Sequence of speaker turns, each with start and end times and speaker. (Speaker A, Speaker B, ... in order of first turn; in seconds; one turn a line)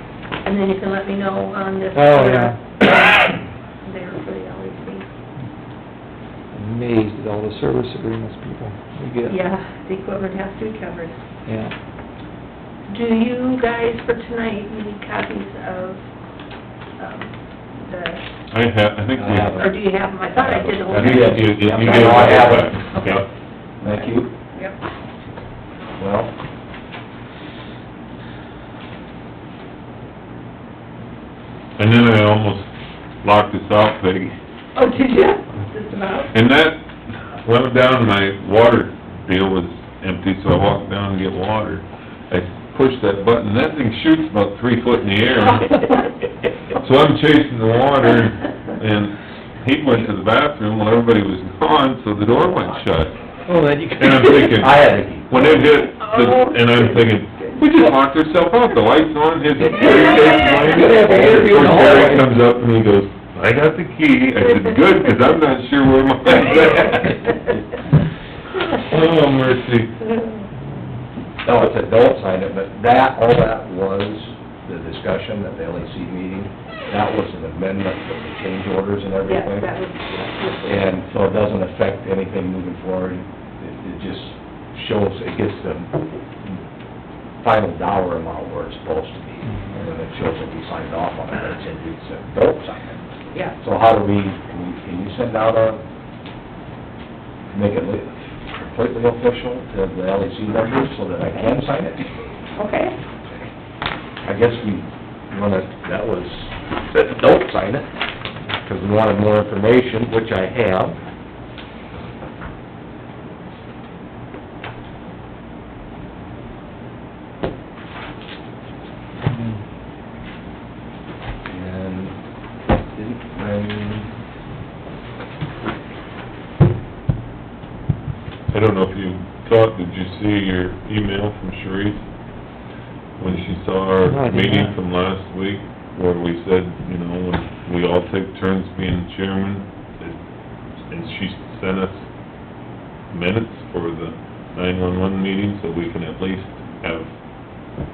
Speaker A: 0.4-5.1
Speaker B: 1.9-2.6
Speaker B: 6.5-9.4
Speaker A: 9.2-11.2
Speaker B: 11.4-11.7
Speaker A: 12.9-16.0
Speaker A: 17.0-18.2
Speaker C: 18.5-19.6
Speaker D: 19.1-19.7
Speaker A: 19.5-23.2
Speaker D: 20.3-23.1
Speaker C: 20.9-23.2
Speaker D: 23.8-24.3
Speaker A: 24.0-24.8
Speaker D: 26.0-26.3
Speaker C: 31.8-32.7
Speaker C: 33.2-34.4
Speaker A: 34.7-36.4
Speaker C: 36.3-45.8
Speaker A: 45.6-46.0
Speaker C: 46.8-53.2
Speaker B: 53.5-54.4
Speaker C: 54.0-67.4
Speaker D: 54.5-55.6
Speaker A: 55.9-57.6
Speaker A: 59.7-60.8
Speaker B: 60.7-62.3
Speaker A: 64.4-65.1
Speaker A: 66.5-67.5
Speaker C: 68.7-70.0
Speaker A: 70.0-70.5
Speaker D: 71.4-79.7
Speaker A: 79.3-81.0
Speaker D: 80.7-86.6
Speaker D: 87.4-93.0
Speaker D: 93.6-95.8
Speaker D: 97.5-102.0
Speaker A: 102.5-102.9
Speaker D: 104.2-107.9
Speaker D: 108.6-111.0
Speaker B: 119.3-119.6
Speaker D: 121.4-122.2
Speaker D: 122.9-124.1
Speaker C: 128.5-132.0
Speaker C: 133.2-140.2
Speaker B: 133.9-134.8
Speaker C: 140.8-142.1
Speaker C: 143.1-147.1